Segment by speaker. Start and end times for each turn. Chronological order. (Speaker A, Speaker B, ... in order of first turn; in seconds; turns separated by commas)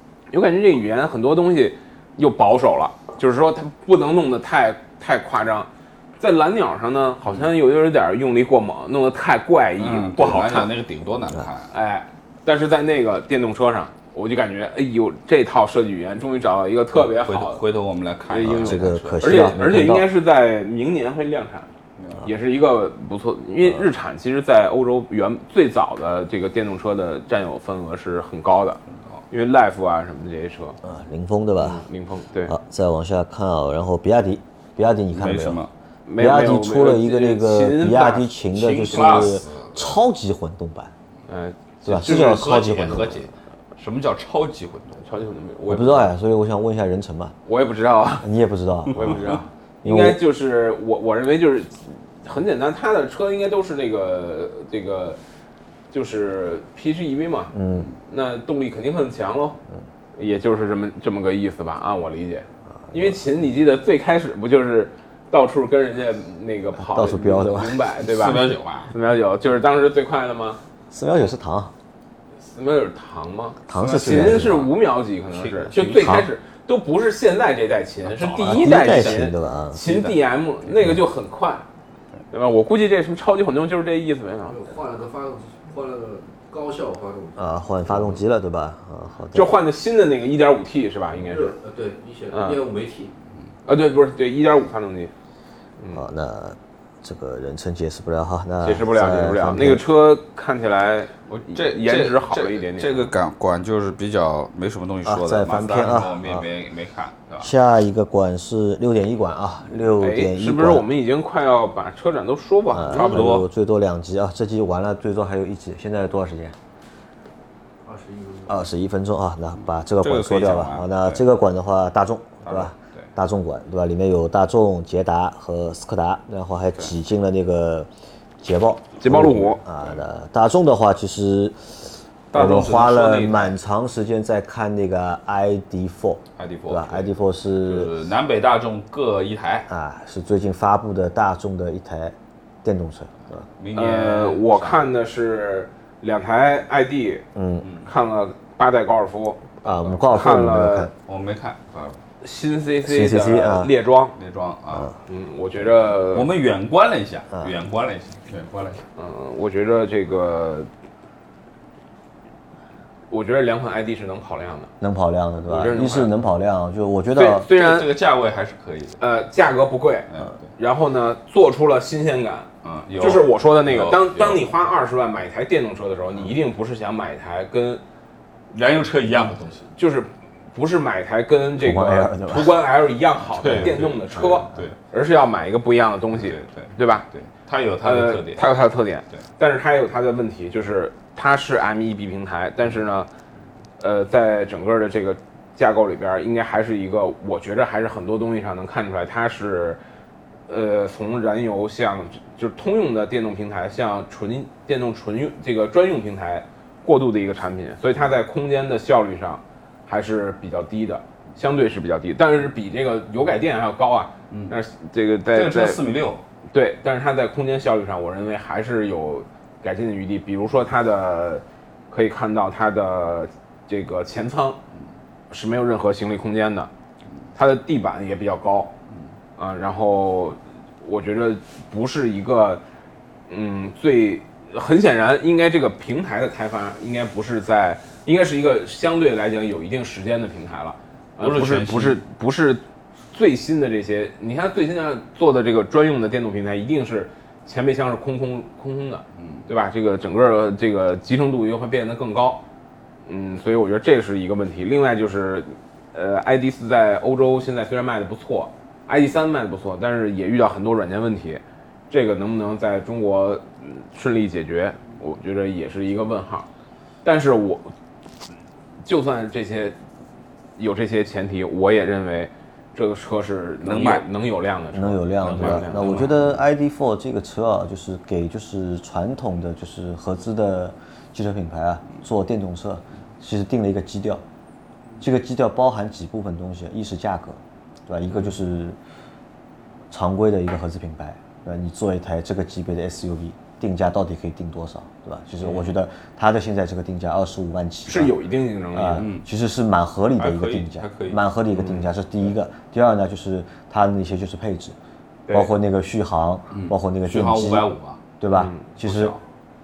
Speaker A: 0.3-10.7, Speaker B: 9.8-11.7, Speaker A: 11.7-17.6, Speaker B: 17.1-19.6, Speaker A: 18.3-21.7, Speaker C: 18.4-20.1, Speaker B: 22.0-22.3, Speaker A: 22.2-30.8, Speaker C: 30.8-31.8, Speaker A: 31.6-32.5, Speaker C: 32.5-35.6, Speaker B: 35.1-35.7, Speaker A: 36.1-38.3, Speaker C: 36.2-40.9, Speaker B: 38.5-40.0, Speaker A: 41.3-42.5, Speaker C: 41.9-43.2, Speaker B: 41.9-45.0, Speaker A: 45.0-46.1, Speaker C: 45.7-47.4, Speaker A: 47.5-48.3, Speaker C: 48.2-50.2, Speaker A: 48.9-55.2, Speaker A: 55.9-59.6, Speaker C: 57.5-57.9, Speaker A: 60.2-70.6, Speaker C: 66.8-67.8, Speaker B: 67.9-68.9, Speaker C: 70.9-71.7, Speaker A: 72.5-81.6, Speaker C: 73.7-74.7, Speaker B: 73.8-74.7, Speaker B: 75.3-76.0, Speaker C: 76.0-76.3, Speaker B: 78.1-79.2, Speaker C: 78.4-79.8, Speaker A: 82.3-84.6, Speaker D: 84.5-87.6, Speaker C: 87.4-89.5, Speaker A: 89.3-91.5, Speaker D: 91.3-93.1, Speaker A: 92.3-92.6, Speaker A: 93.7-95.1, Speaker C: 95.9-99.9, Speaker A: 98.6-103.1, Speaker B: 101.5-107.5, Speaker C: 105.0-106.5, Speaker C: 107.4-110.9, Speaker A: 110.0-113.3, Speaker C: 112.7-116.5, Speaker B: 112.9-113.5, Speaker D: 117.8-118.7, Speaker C: 118.5-127.9, Speaker B: 120.0-121.2, Speaker B: 122.5-123.1, Speaker C: 128.4-137.9, Speaker A: 129.0-129.6, Speaker B: 132.3-133.5, Speaker A: 132.3-132.8, Speaker B: 136.4-137.1, Speaker B: 137.6-139.7, Speaker C: 139.7-143.4, Speaker B: 143.6-144.9, Speaker A: 143.7-147.2, Speaker C: 147.3-147.7, Speaker B: 147.6-147.9, Speaker A: 147.8-150.9, Speaker C: 149.6-150.9, Speaker B: 151.1-152.0, Speaker A: 152.2-154.2, Speaker C: 152.9-153.7, Speaker B: 154.2-155.0, Speaker A: 155.1-156.3, Speaker B: 156.1-158.8, Speaker A: 159.0-160.7, Speaker A: 163.1-164.7, Speaker C: 164.8-167.5, Speaker A: 165.5-166.1, Speaker A: 167.2-167.9, Speaker B: 167.5-169.0, Speaker A: 169.0-177.8, Speaker B: 170.1-170.4, Speaker B: 172.6-174.4, Speaker B: 178.5-179.7, Speaker A: 179.8-187.1, Speaker C: 181.6-182.5, Speaker B: 183.4-184.8, Speaker B: 186.2-188.4, Speaker A: 187.8-193.1, Speaker A: 193.8-199.8, Speaker A: 200.5-215.8, Speaker B: 214.3-214.6, Speaker B: 215.3-216.2, Speaker A: 216.5-224.6, Speaker A: 225.3-226.7, Speaker A: 227.3-228.8, Speaker A: 229.4-232.6, Speaker A: 233.3-252.4, Speaker B: 241.2-242.0, Speaker B: 249.2-249.5, Speaker A: 253.1-266.5, Speaker A: 267.0-267.7, Speaker A: 268.8-269.8, Speaker A: 270.6-276.1, Speaker B: 273.6-274.1, Speaker C: 274.7-284.2, Speaker B: 275.2-276.4, Speaker C: 285.0-288.8, Speaker C: 289.9-298.1, Speaker A: 295.4-295.7, Speaker A: 297.9-299.1, Speaker C: 298.7-304.8, Speaker B: 299.0-299.2, Speaker B: 300.2-301.2, Speaker A: 301.5-301.9, Speaker C: 305.3-307.7, Speaker B: 306.5-308.0, Speaker C: 308.2-309.1, Speaker A: 308.3-308.6, Speaker B: 308.8-309.2